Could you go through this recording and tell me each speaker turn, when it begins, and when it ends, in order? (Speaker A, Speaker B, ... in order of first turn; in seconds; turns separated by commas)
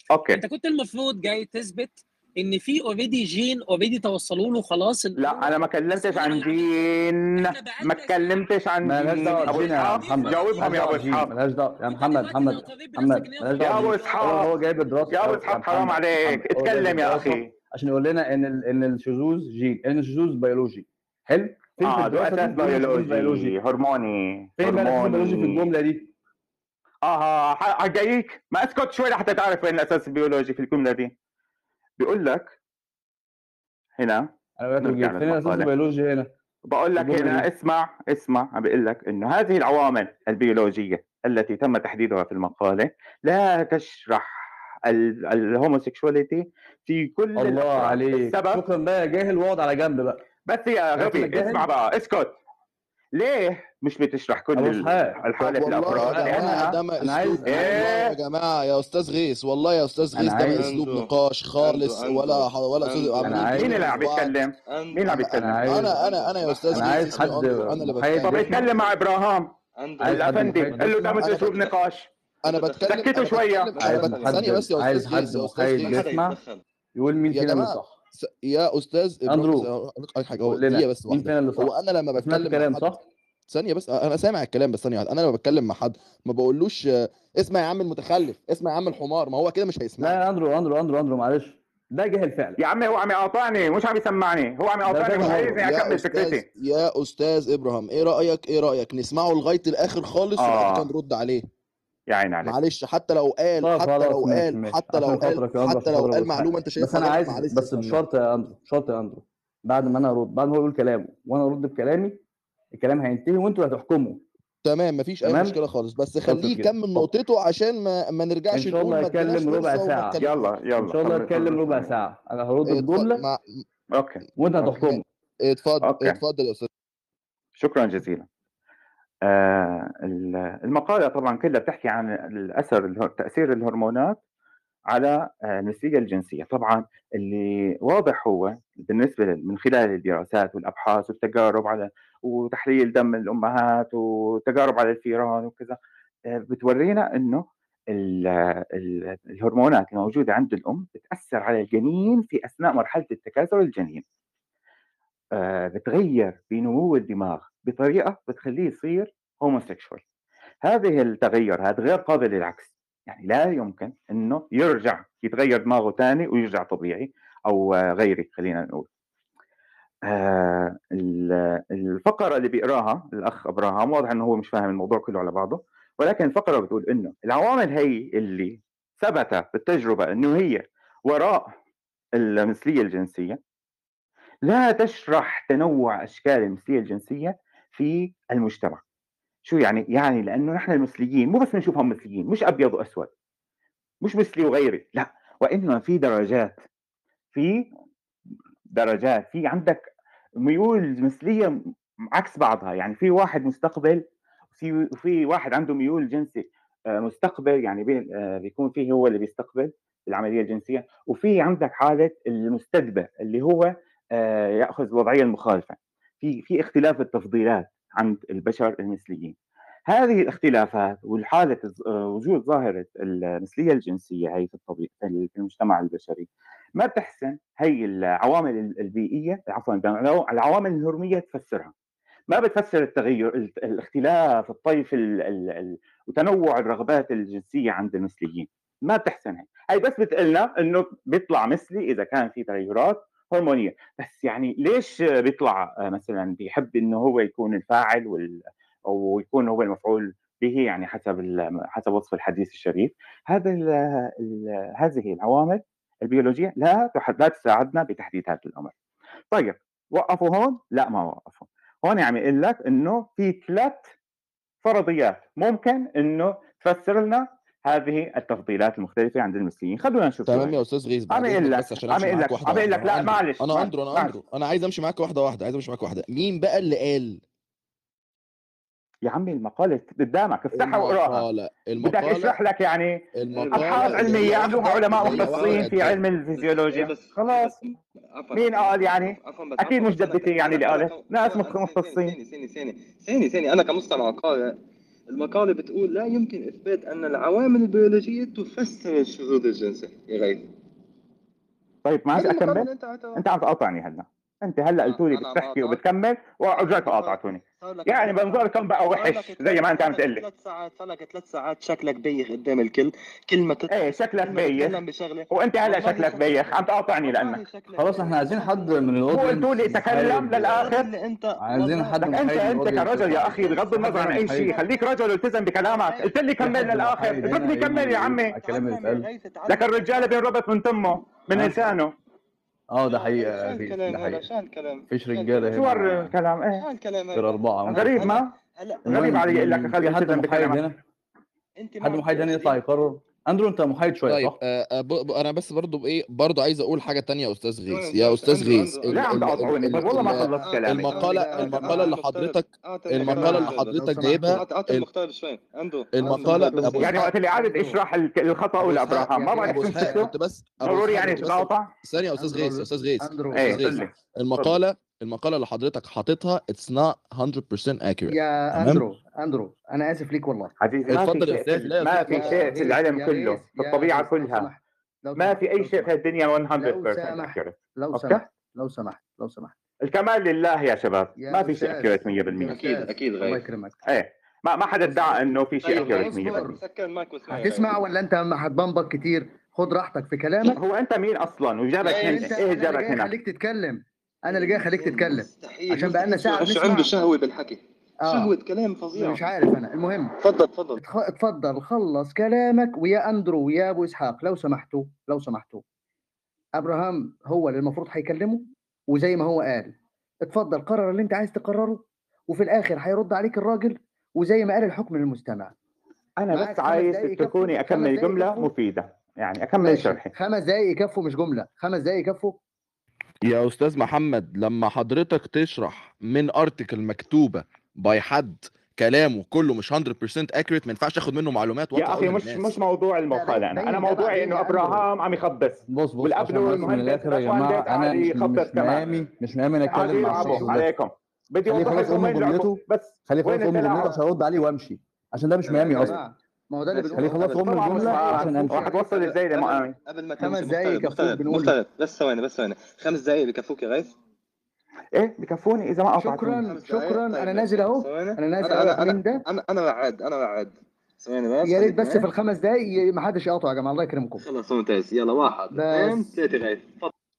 Speaker A: 0.1-0.4, Speaker B: 0.3-8.5, Speaker A: 5.2-11.3, Speaker C: 8.8-23.6, Speaker B: 9.1-11.2, Speaker B: 11.8-14.5, Speaker A: 13.6-14.5, Speaker A: 15.1-17.5, Speaker A: 21.8-25.6, Speaker C: 24.6-26.1, Speaker A: 27.0-31.1, Speaker A: 32.0-32.5, Speaker A: 34.0-34.3, Speaker C: 34.6-36.3, Speaker A: 34.8-35.7, Speaker A: 36.7-48.6, Speaker C: 37.0-37.5, Speaker C: 47.4-50.2, Speaker A: 50.5-52.4, Speaker C: 51.0-51.6, Speaker A: 53.1-56.8, Speaker C: 54.5-55.2, Speaker D: 55.4-64.3, Speaker C: 55.8-57.9, Speaker A: 57.5-58.1, Speaker C: 60.1-60.7, Speaker E: 60.5-64.1, Speaker C: 63.2-63.8, Speaker A: 63.4-65.7, Speaker E: 64.7-67.5, Speaker D: 65.0-68.7, Speaker C: 65.3-65.9, Speaker C: 66.7-68.6, Speaker A: 68.2-69.5, Speaker E: 69.8-70.6, Speaker C: 70.0-71.4, Speaker A: 70.0-72.1, Speaker D: 71.0-71.6, Speaker E: 71.2-71.6, Speaker D: 72.4-76.0, Speaker E: 72.4-74.7, Speaker A: 72.8-73.8, Speaker C: 73.8-76.4, Speaker E: 75.8-76.6, Speaker C: 77.0-77.9, Speaker D: 77.3-82.9, Speaker C: 79.3-79.7, Speaker C: 80.4-83.0, Speaker D: 83.5-90.2, Speaker C: 90.0-92.6, Speaker A: 92.6-96.4, Speaker C: 94.8-95.6, Speaker D: 95.2-101.4, Speaker A: 100.4-100.8, Speaker A: 102.1-102.5, Speaker D: 102.4-108.0, Speaker C: 103.6-112.2, Speaker C: 112.7-114.2, Speaker D: 114.6-121.5, Speaker C: 115.2-115.6, Speaker C: 116.2-117.1, Speaker C: 118.5-120.2, Speaker A: 120.2-121.9, Speaker C: 120.8-123.2, Speaker D: 122.7-123.4, Speaker A: 123.9-124.2, Speaker C: 124.4-125.0, Speaker D: 124.6-126.7, Speaker A: 125.8-126.2, Speaker A: 127.6-128.2, Speaker A: 129.2-134.2, Speaker A: 134.9-145.8, Speaker A: 146.3-154.0, Speaker A: 155.3-160.0, Speaker A: 160.6-168.9, Speaker A: 170.1-181.5, Speaker A: 182.2-183.4, Speaker A: 184.4-188.8, Speaker A: 189.4-193.1, Speaker A: 194.0-196.6, Speaker A: 197.3-197.6, Speaker A: 198.7-199.8, Speaker A: 200.4-201.5, Speaker A: 202.1-204.0, Speaker A: 204.6-219.3, Speaker A: 219.9-231.7, Speaker A: 232.3-258.7, Speaker A: 259.3-263.9, Speaker A: 264.6-270.5, Speaker D: 270.2-277.2, Speaker A: 271.1-274.1, Speaker A: 279.1-281.2, Speaker D: 280.5-282.4, Speaker A: 281.8-283.0, Speaker D: 283.2-286.0, Speaker E: 283.3-294.6, Speaker A: 283.5-287.5, Speaker A: 288.3-292.1, Speaker E: 295.1-300.5, Speaker A: 301.8-310.2, Speaker E: 302.1-303.2, Speaker E: 304.8-305.8, Speaker E: 306.6-322.5, Speaker A: 313.7-314.8, Speaker A: 315.3-317.4, Speaker C: 317.8-320.7, Speaker A: 319.1-320.9, Speaker C: 321.4-324.5, Speaker A: 322.1-328.3, Speaker E: 323.1-324.8, Speaker E: 325.6-330.1, Speaker C: 326.4-329.1, Speaker A: 329.5-331.9, Speaker C: 331.3-331.6, Speaker C: 332.7-334.2, Speaker E: 332.9-336.0, Speaker C: 334.9-336.1, Speaker A: 335.5-336.6, Speaker E: 336.6-339.2, Speaker C: 337.1-338.2, Speaker A: 337.7-338.3, Speaker C: 338.8-340.8, Speaker A: 338.9-340.6, Speaker E: 341.6-342.6, Speaker C: 341.8-344.4, Speaker D: 344.1-354.9, Speaker E: 347.7-357.1, Speaker A: 348.9-351.1, Speaker F: 349.5-351.9, Speaker F: 353.0-354.4, Speaker D: 355.9-357.0, Speaker F: 356.0-357.8, Speaker A: 356.8-361.7, Speaker D: 358.6-368.8, Speaker F: 358.9-360.1, Speaker F: 361.1-361.3, Speaker F: 362.2-363.9, Speaker A: 363.3-364.6, Speaker F: 368.1-370.5, Speaker A: 370.6-374.5, Speaker D: 370.9-372.7, Speaker F: 372.0-375.9, Speaker A: 375.2-378.2, Speaker F: 376.5-379.5, Speaker A: 379.9-382.7, Speaker F: 381.2-383.8, Speaker E: 382.4-383.4, Speaker A: 383.9-386.5, Speaker F: 384.9-386.6, Speaker E: 385.6-387.9, Speaker F: 387.3-390.6, Speaker A: 390.5-393.1, Speaker E: 391.8-392.4, Speaker F: 391.9-396.9, Speaker E: 394.3-399.4, Speaker F: 398.1-398.3, Speaker F: 398.9-400.1, Speaker E: 400.2-400.8, Speaker F: 400.8-405.6, Speaker F: 406.6-409.7, Speaker F: 410.3-415.5, Speaker A: 416.2-420.1, Speaker F: 416.3-418.5, Speaker F: 419.6-422.4, Speaker D: 423.2-432.6, Speaker A: 431.7-439.1, Speaker F: 433.1-434.9, Speaker C: 435.7-440.7, Speaker F: 439.7-440.6, Speaker A: 439.7-443.9, Speaker C: 441.5-446.0, Speaker F: 441.6-442.0, Speaker E: 445.5-446.0, Speaker F: 445.6-448.7, Speaker E: 446.7-453.9, Speaker C: 446.9-448.6, Speaker A: 447.6-449.8, Speaker F: 450.2-451.5, Speaker A: 454.9-456.5, Speaker F: 455.9-459.2, Speaker E: 456.4-462.1, Speaker F: 461.4-464.2, Speaker E: 464.2-466.9, Speaker F: 465.5-466.1